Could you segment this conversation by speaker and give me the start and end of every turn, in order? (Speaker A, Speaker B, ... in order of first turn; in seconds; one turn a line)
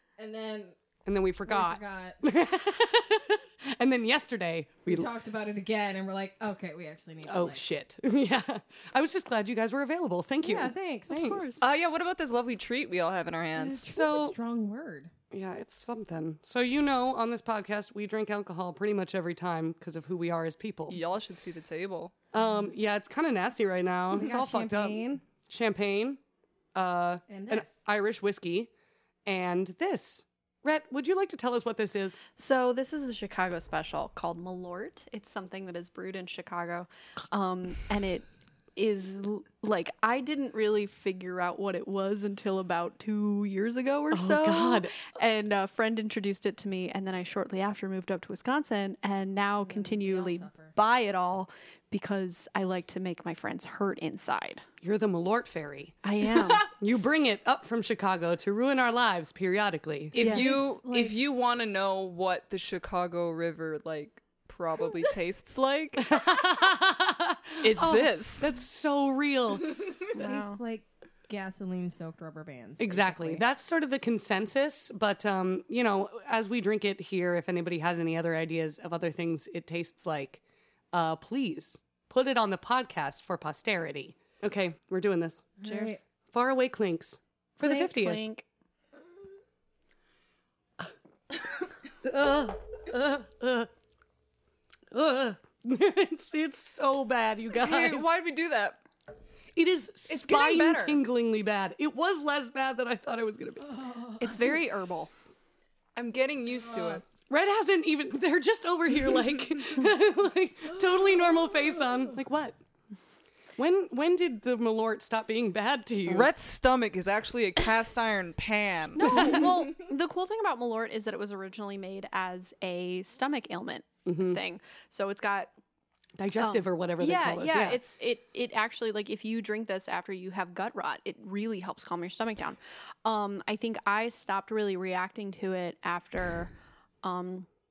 Speaker A: 0.2-0.8
Speaker B: 1.1-5.1
Speaker A: 1.5-2.2
Speaker A: 4.9-7.6
Speaker B: 7.2-11.6
Speaker A: 10.4-11.2
Speaker C: 11.1-11.6
Speaker D: 11.6-13.9
Speaker B: 13.6-14.4
Speaker A: 13.8-15.1
Speaker B: 15.3-21.0
Speaker D: 20.9-22.1
Speaker B: 22.3-26.2
Speaker A: 24.1-25.2
Speaker B: 26.8-28.7
Speaker A: 27.3-27.8
Speaker B: 29.3-32.2
Speaker C: 32.4-54.7
Speaker B: 44.1-45.0
Speaker A: 49.6-50.8
Speaker B: 54.8-56.0
Speaker C: 56.0-56.8
Speaker B: 56.7-60.2
Speaker A: 60.1-61.2
Speaker D: 60.1-66.2
Speaker C: 60.2-60.4
Speaker B: 66.1-69.9
Speaker D: 67.6-68.5
Speaker C: 70.1-70.6
Speaker A: 70.2-73.4
Speaker B: 72.8-80.4
Speaker B: 80.9-85.6
Speaker A: 85.6-86.0
Speaker C: 85.6-86.0
Speaker B: 86.3-88.2
Speaker C: 87.6-88.5
Speaker B: 92.0-93.7
Speaker B: 94.9-98.1
Speaker D: 97.6-98.8
Speaker B: 99.6-103.9
Speaker D: 100.1-101.0
Speaker A: 103.8-104.2
Speaker C: 104.2-105.1
Speaker D: 106.0-107.0
Speaker B: 107.3-112.6
Speaker B: 113.6-116.3
Speaker D: 116.1-119.7
Speaker C: 119.0-125.5
Speaker B: 119.0-119.4
Speaker B: 124.1-124.4
Speaker B: 126.2-127.8
Speaker C: 126.4-137.5